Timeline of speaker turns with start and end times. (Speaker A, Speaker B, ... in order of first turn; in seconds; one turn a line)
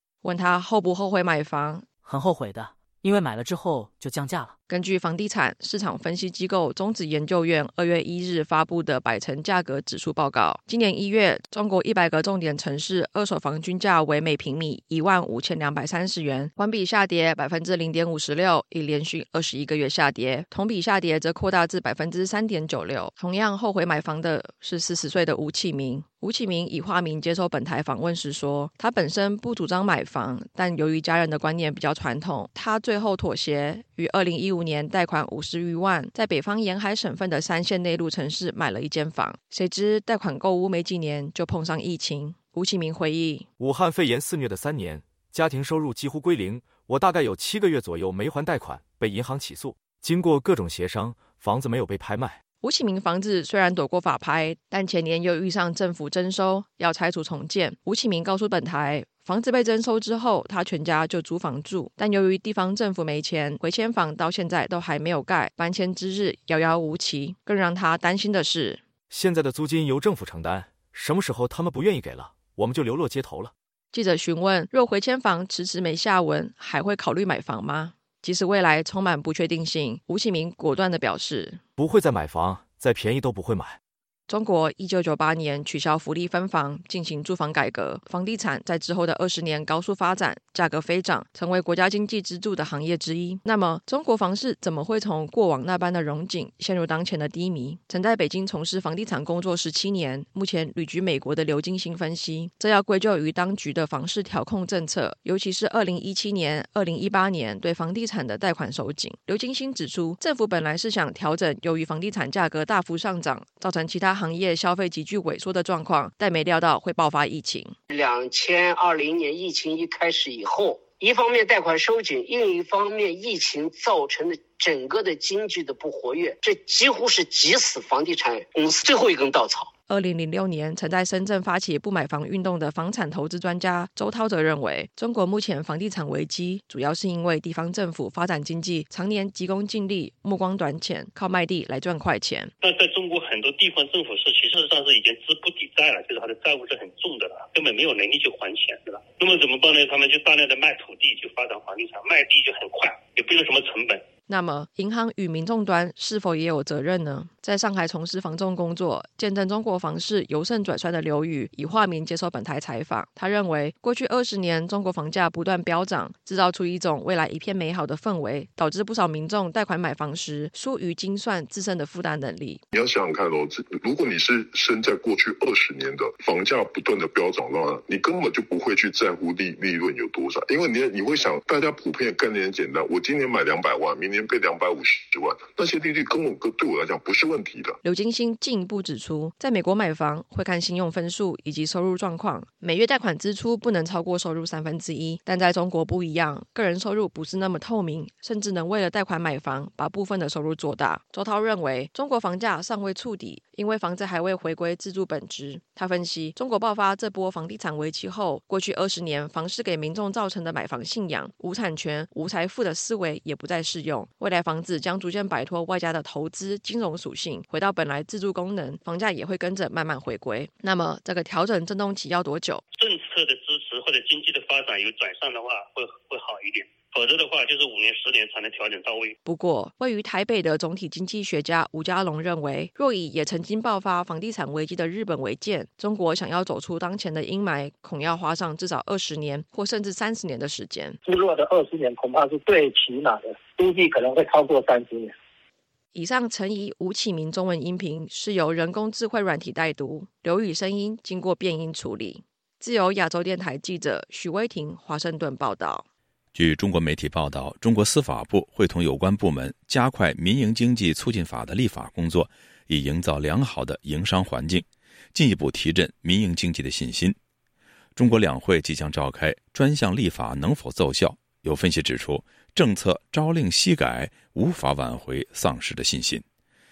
Speaker A: 0.2-1.9
Speaker B: 2.0-4.5
Speaker A: 4.7-43.5
Speaker C: 43.6-52.4
Speaker A: 52.6-68.8
Speaker C: 69.1-73.5
Speaker A: 73.9-81.6
Speaker C: 81.8-83.8
Speaker A: 84.3-117.7
Speaker D: 117.9-129.7
Speaker A: 129.9-142.5
Speaker E: 142.6-154.0
Speaker A: 154.3-172.6
Speaker F: 172.7-187.8
Speaker A: 187.8-222.6
Speaker E: 222.7-229.2
Speaker A: 229.2-241.0
Speaker G: 241.0-245.1
Speaker A: 245.9-255.8
Speaker H: 256.3-267.2
Speaker H: 267.9-276.2